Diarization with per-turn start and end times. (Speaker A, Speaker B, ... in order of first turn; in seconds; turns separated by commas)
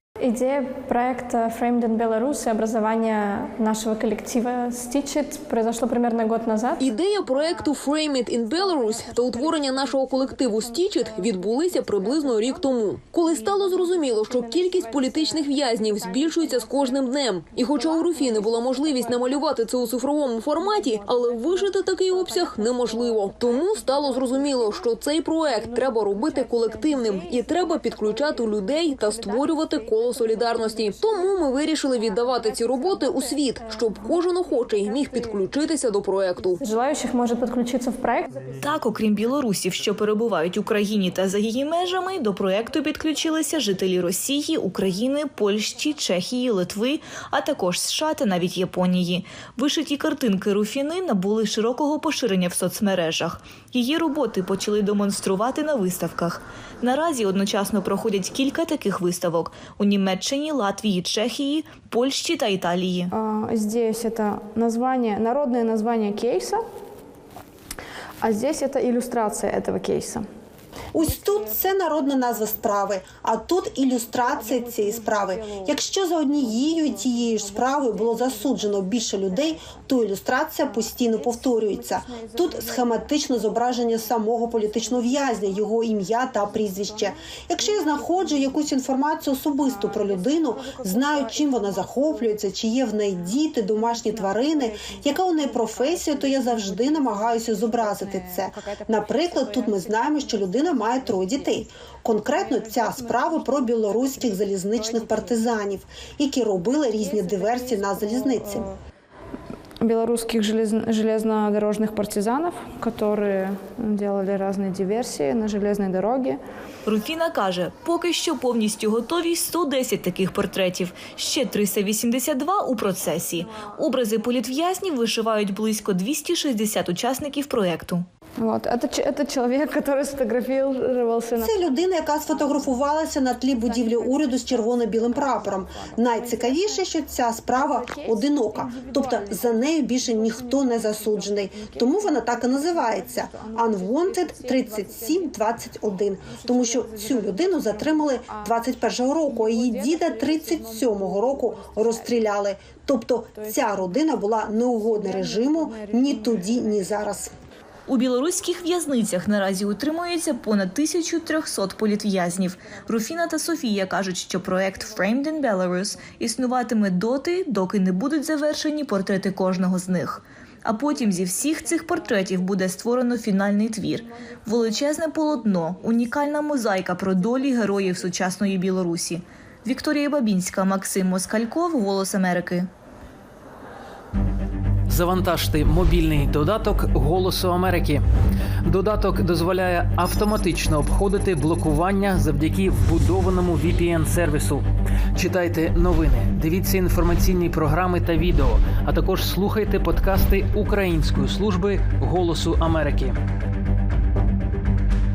Speaker A: 0.2-6.9, Speaker B: 6.8-36.6, Speaker A: 36.6-38.3, Speaker C: 38.6-63.1, Speaker A: 63.1-66.6, Speaker A: 68.2-70.3, Speaker D: 70.9-108.7, Speaker A: 109.8-116.4, Speaker C: 116.8-128.1, Speaker A: 128.4-131.6, Speaker D: 131.4-157.3, Speaker C: 157.9-182.7, Speaker E: 184.9-188.0, Speaker E: 188.6-203.2